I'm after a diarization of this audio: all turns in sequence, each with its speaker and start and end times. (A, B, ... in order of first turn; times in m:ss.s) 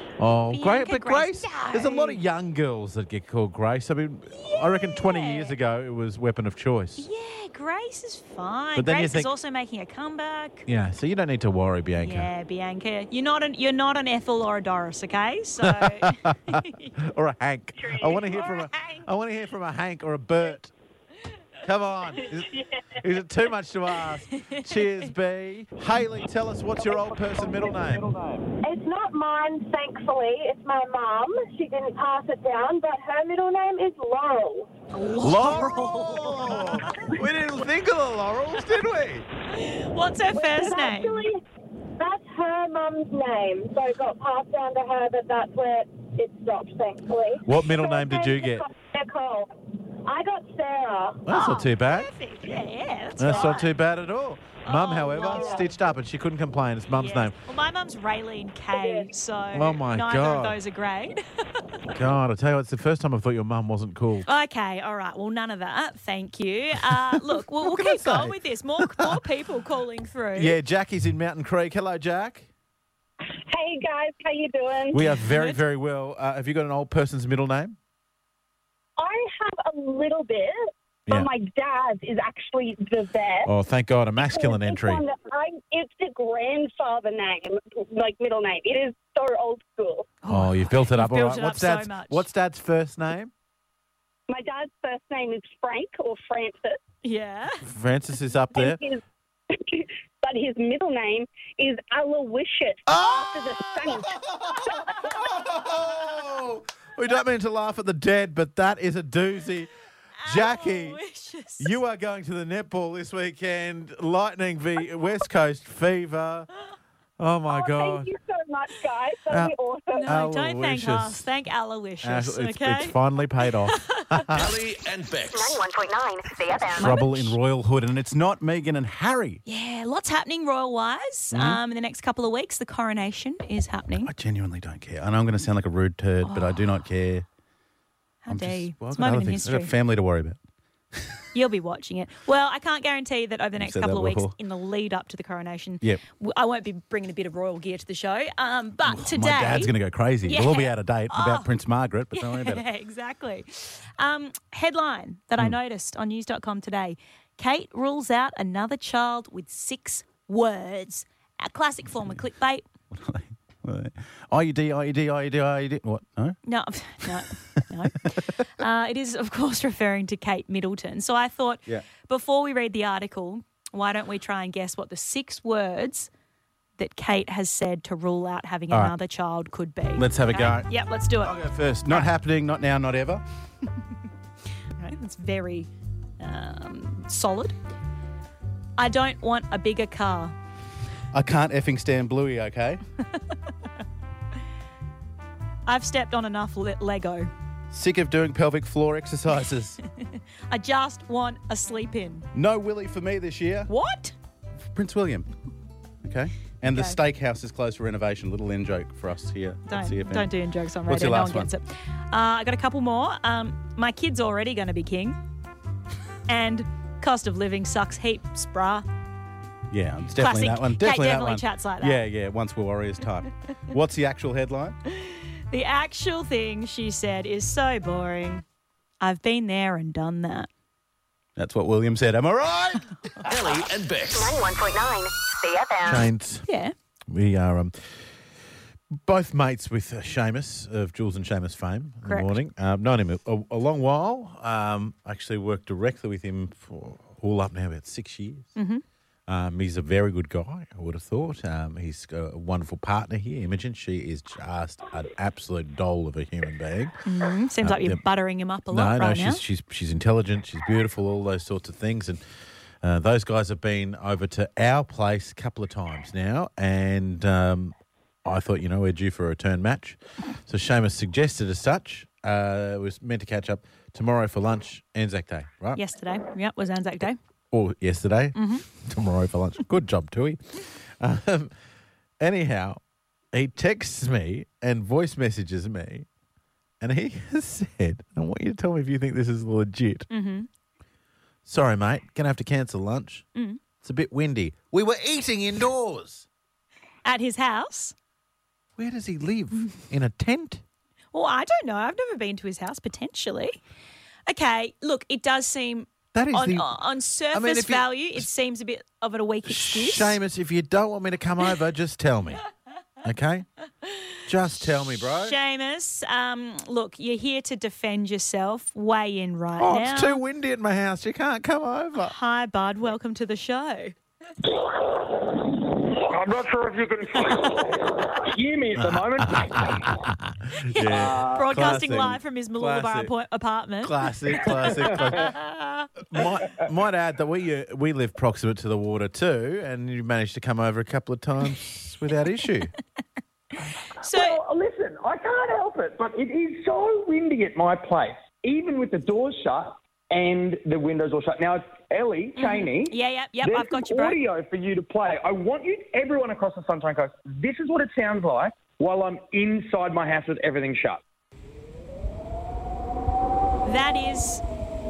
0:00.2-0:07.1 A
0:00.5-0:02.2 B
0:04.3-0:05.6 B
0:07.0-0:10.7 B
0:08.8-0:09.3 A
0:10.7-0:12.3 A
0:12.0-0:16.9 B
0:15.6-0:20.7 A
0:18.4-0:19.0 B
0:21.6-0:28.1 A
0:24.4-0:24.8 B
0:26.8-0:28.5 C
0:28.6-0:34.7 D
0:34.9-0:37.2 B
0:35.2-0:39.3 A
0:39.5-0:41.2 B
0:40.3-0:41.4 D
0:42.0-0:51.2 D
0:47.4-0:48.7 A
0:51.3-0:52.1 A
0:51.3-0:53.7 B
0:53.2-0:57.3 A
0:54.6-0:55.8 B
0:55.3-0:55.6 D
0:56.9-1:01.6 B
0:58.7-0:59.1 D
0:59.5-1:00.6 A
1:01.9-1:04.3 A
1:04.2-1:10.6 B
1:06.8-1:09.2 A
1:10.4-1:12.5 A
1:13.5-1:15.1 D
1:14.9-1:17.8 A
1:15.2-1:15.5 B
1:19.0-1:23.5 D
1:23.4-1:25.0 A
1:24.2-1:30.1 D
1:30.2-1:32.3 B
1:30.3-1:33.3 A
1:34.3-1:36.8 D
1:37.0-1:37.6 B
1:37.6-1:38.8 A
1:38.5-1:39.0 D
1:39.5-1:45.2 D
1:42.9-1:49.7 A
1:50.2-1:51.8 B
1:50.2-1:51.0 A
1:51.6-1:56.5 A
1:57.2-1:58.1 A
1:57.5-2:00.1 D
2:00.0-2:03.0 B
2:00.1-2:01.3 A
2:02.0-2:04.5 A
2:03.7-2:04.2 B
2:04.3-2:05.6 E
2:05.3-2:06.9 F
2:06.8-2:09.4 A
2:06.8-2:07.4 B
2:09.5-2:14.1 B
2:11.3-2:11.6 A
2:14.0-2:17.2 A
2:16.2-2:16.7 B
2:18.2-2:19.7 B
2:18.3-2:20.4 A
2:21.0-2:21.2 A
2:21.3-2:29.7 B
2:23.6-2:24.4 A
2:28.9-2:32.6 A
2:30.2-2:31.5 B
2:32.1-2:42.7 B
2:42.9-2:46.4 A
2:46.4-2:56.1 B
2:56.8-3:02.1 B
3:00.0-3:00.7 A
3:01.2-3:03.2 A
3:04.8-3:07.6 B
3:08.8-3:10.4 B
3:11.1-3:12.8 A
3:15.7-3:17.3 B
3:17.7-3:19.8 A
3:20.0-3:22.3 B
3:22.3-3:23.7 A
3:23.7-3:24.1 B
3:24.7-3:25.3 A
3:26.0-3:30.3 A
3:26.7-3:27.0 B
3:29.7-3:35.2 B
3:30.9-3:31.5 A
3:36.3-3:38.9 B
3:39.7-3:44.8 A
3:40.2-3:42.0 B
3:44.9-3:48.4 B
3:49.0-3:50.5 B
3:51.4-3:52.9 A
3:53.2-3:54.4 E
3:54.1-3:56.1 F
3:55.8-3:56.5 A
3:56.5-3:56.7 B
3:57.1-3:58.0 A
3:59.0-4:08.5 A
4:02.1-4:02.4 B
4:08.6-4:08.8 B
4:09.3-4:17.0 A
4:17.0-4:19.4 B
4:17.6-4:18.0 A
4:18.7-4:22.2 A
4:22.8-4:27.7 A
4:28.2-4:35.8 A
4:35.8-4:37.2 B
4:37.5-4:41.5 A
4:38.4-4:38.7 B
4:42.2-4:42.8 A
4:43.3-4:46.1 A
4:46.8-4:50.1 A
4:50.1-4:50.5 B
4:51.4-4:53.3 A
4:53.4-4:53.6 B
4:53.8-4:56.3 A
4:57.0-4:57.9 B
4:58.8-5:00.6 A
5:01.1-5:03.6 B
5:04.3-5:10.2 B
5:06.1-5:06.7 A
5:07.3-5:08.3 A
5:09.5-5:12.4 A
5:13.0-5:13.5 A
5:14.3-5:15.4 A
5:15.2-5:20.2 B
5:19.6-5:22.2 A
5:22.0-5:24.0 B
5:24.8-5:30.0 C
5:27.2-5:27.9 B
5:28.8-5:33.1 A
5:30.6-5:35.9 B
5:30.8-5:31.6 C
5:33.8-5:35.4 A
5:34.6-5:35.0 C
5:36.1-5:42.7 A
5:44.0-5:44.4 B
5:44.1-6:01.0 C
5:52.4-5:54.2 B
6:03.6-6:04.4 B